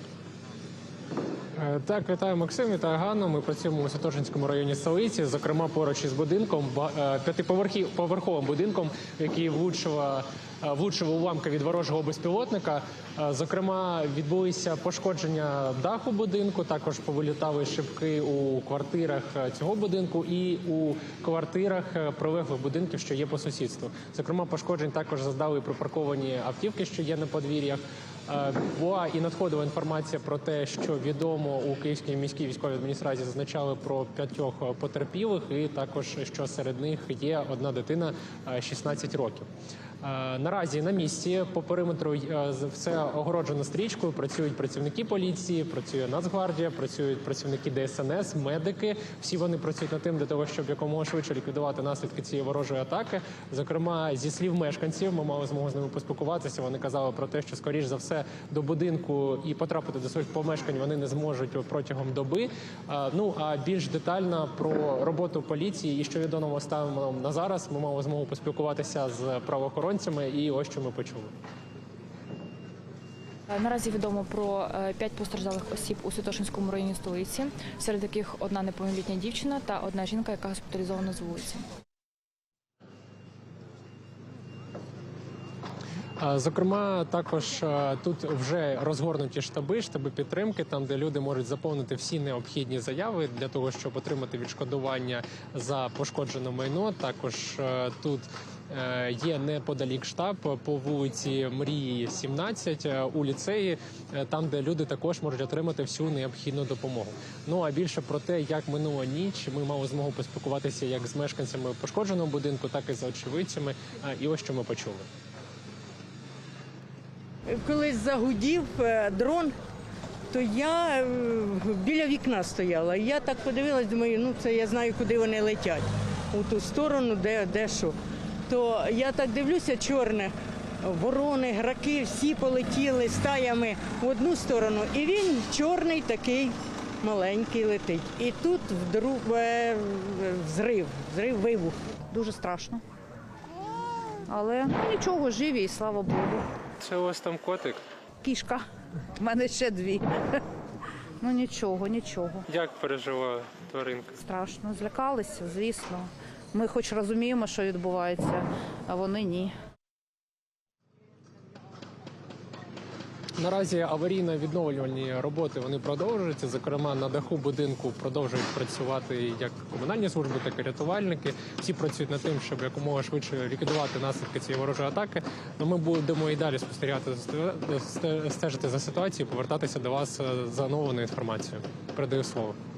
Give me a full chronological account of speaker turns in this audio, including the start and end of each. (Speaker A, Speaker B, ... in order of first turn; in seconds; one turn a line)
Speaker A: 1.6-39.5
Speaker A: 40.0-71.3
Speaker B: 73.5-81.6
Speaker A: 86.2-115.1
Speaker C: 117.5-119.5
Speaker C: 120.3-128.0
Speaker C: 128.5-141.8
Speaker D: 142.1-142.8
Speaker D: 144.3-146.5
Speaker A: 146.8-147.8
Speaker D: 148.2-148.6
Speaker D: 149.2-150.1
Speaker D: 151.2-152.5
Speaker A: 152.5-154.2
Speaker D: 154.2-159.5
Speaker A: 163.4-182.6